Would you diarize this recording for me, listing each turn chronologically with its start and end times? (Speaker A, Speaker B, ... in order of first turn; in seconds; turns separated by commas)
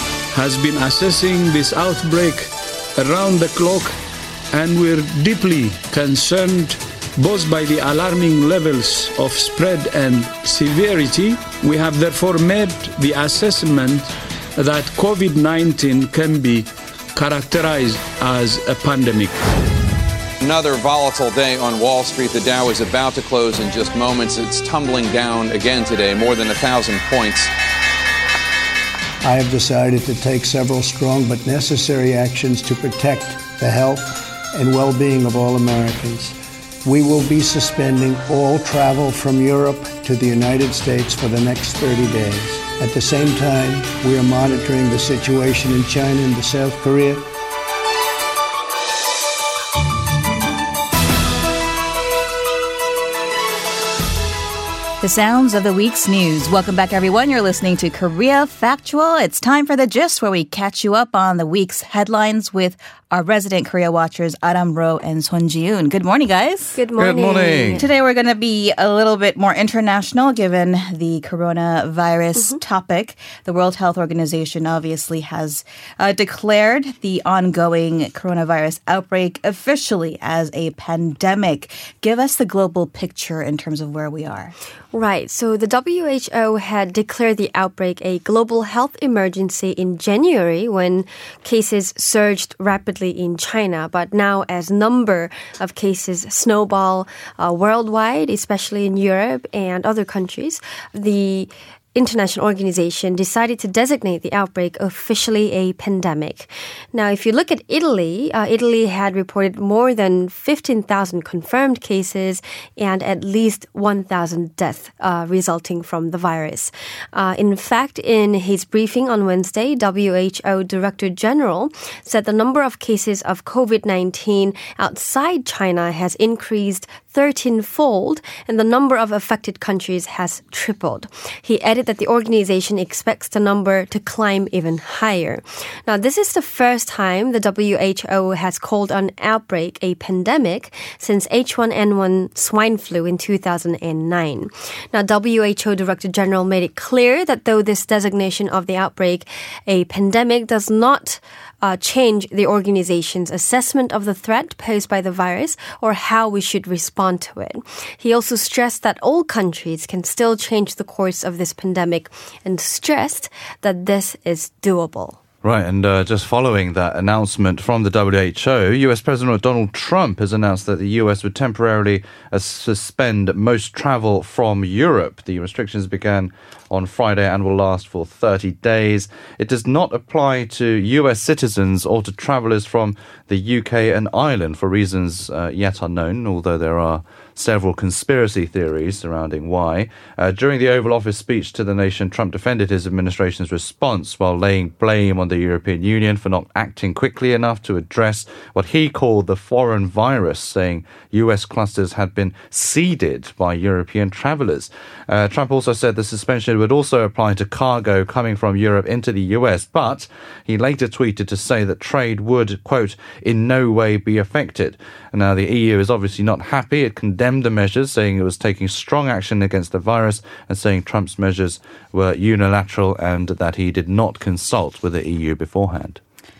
Speaker A: 0.3-4.0, Speaker A: 4.5-19.4, Speaker B: 20.4-27.5, Speaker C: 29.2-47.3, Speaker D: 55.0-66.8, Speaker E: 66.8-67.9, Speaker F: 67.0-67.9, Speaker D: 67.8-84.5, Speaker E: 84.9-165.2, Speaker F: 165.4-226.0